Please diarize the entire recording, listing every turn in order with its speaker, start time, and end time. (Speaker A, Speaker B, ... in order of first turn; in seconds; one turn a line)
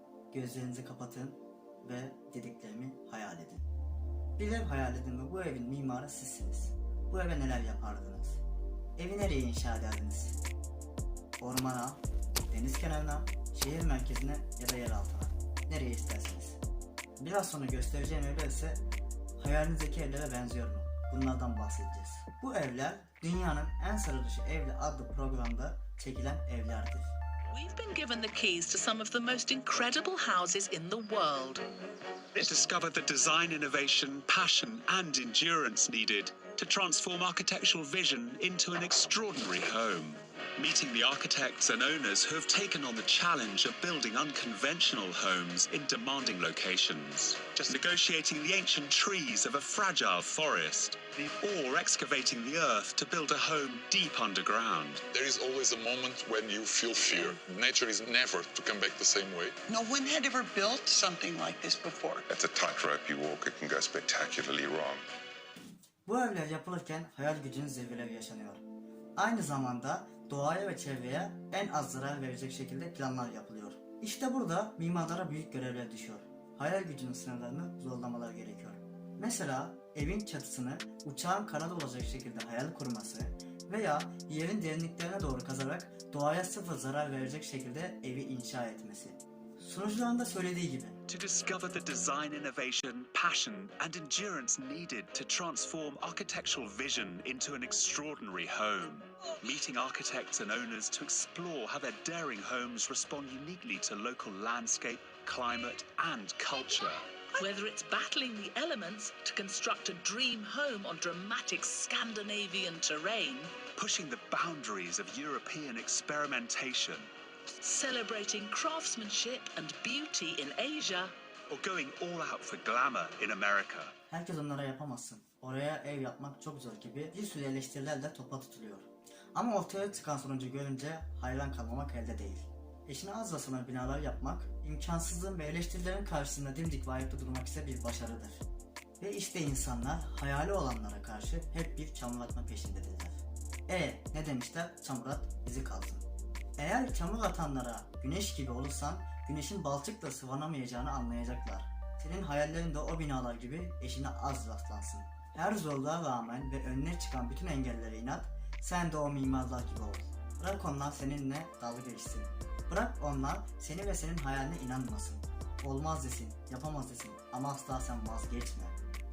Speaker A: 0.3-3.7
Speaker A: 4.4-8.4
Speaker A: 9.0-10.4
Speaker A: 11.4-16.6
Speaker A: 17.2-18.8
Speaker A: 19.4-27.2
Speaker B: 27.5-31.6
Speaker C: 32.3-55.0
Speaker D: 55.1-59.5
Speaker E: 59.7-62.2
Speaker F: 62.3-65.0
Speaker A: 66.0-68.6
Speaker A: 69.2-91.0
Speaker C: 91.1-107.2
Speaker B: 107.3-113.7
Speaker C: 113.7-117.1
Speaker B: 117.6-121.1
Speaker C: 121.5-123.9
Speaker A: 124.1-138.4
Speaker A: 139.0-146.1
Speaker A: 146.6-168.8